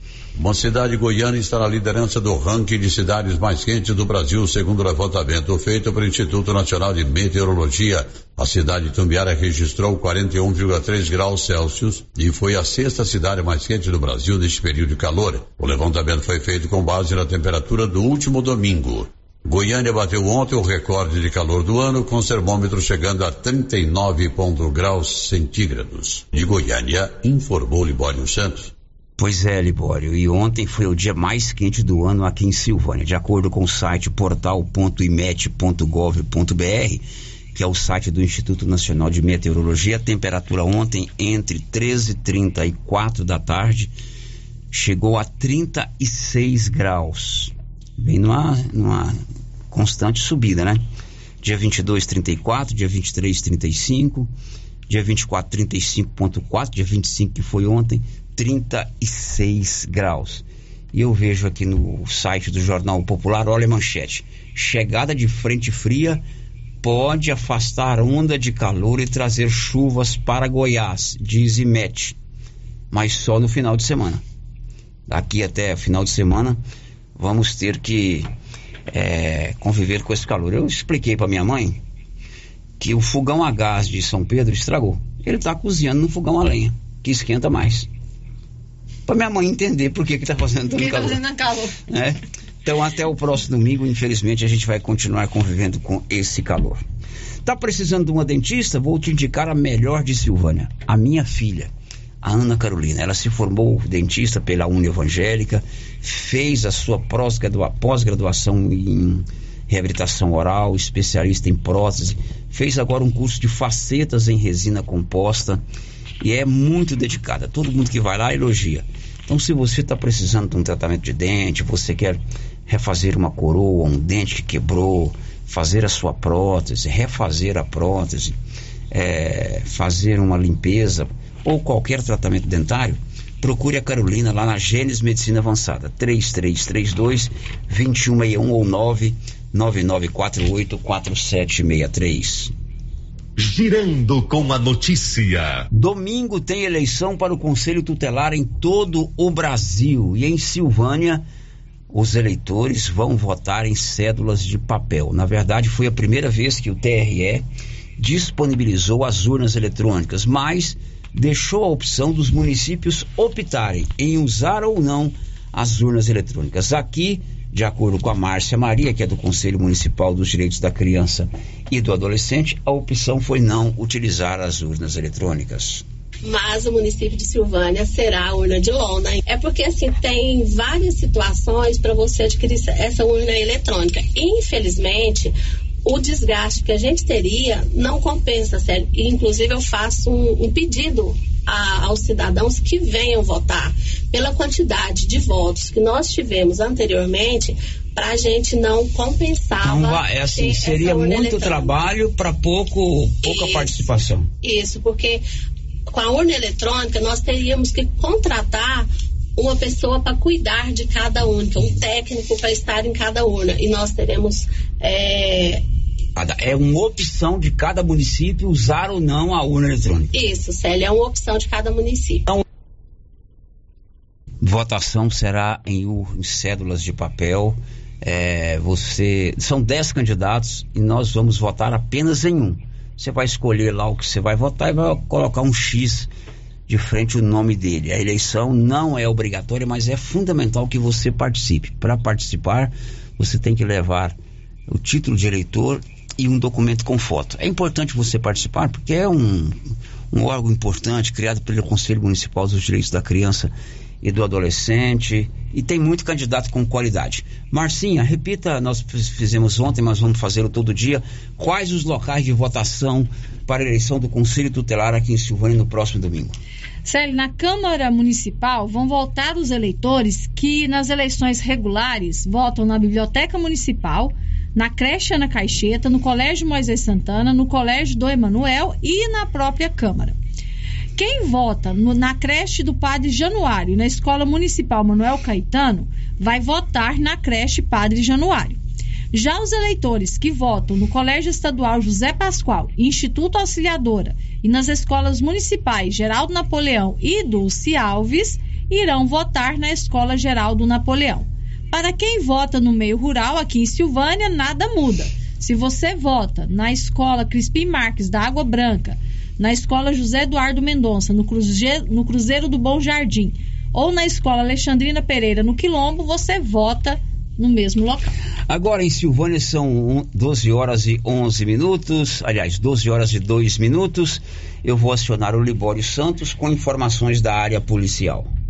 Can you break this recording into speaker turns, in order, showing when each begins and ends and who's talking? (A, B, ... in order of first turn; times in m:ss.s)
0:00.4-0:28.7 A
0:29.2-0:43.9 B
0:44.7-0:49.2 B
0:49.7-0:50.8 B
0:51.4-0:54.3 B
0:54.9-1:06.2 B
1:06.8-1:12.2 B
1:12.9-1:14.2 B
1:15.1-1:16.6 B
1:17.2-1:18.3 B
1:18.9-1:21.8 B
1:22.8-1:27.9 B
1:29.0-1:31.3 B
1:30.8-1:31.6 C
1:31.8-1:36.8 B
1:37.4-1:41.7 B
1:42.2-1:55.6 B
1:56.2-2:08.4 B
2:08.9-2:22.5 B
2:23.4-2:25.4 D
2:25.7-2:31.2 B
2:31.9-2:37.4 B
2:38.0-2:55.8 B
2:56.2-3:05.3 E
3:05.8-3:21.8 E
3:19.6-3:24.3 B
3:23.2-3:23.8 E
3:24.4-3:25.2 E
3:25.9-3:35.6 E
3:36.2-3:40.1 B
3:40.1-3:42.3 E
3:44.4-3:56.1 B
3:56.7-4:09.6 B
4:10.1-4:26.4 B
4:26.8-4:40.2 C
4:41.0-4:48.6 C
4:49.1-5:18.1 C
5:18.5-5:28.3 B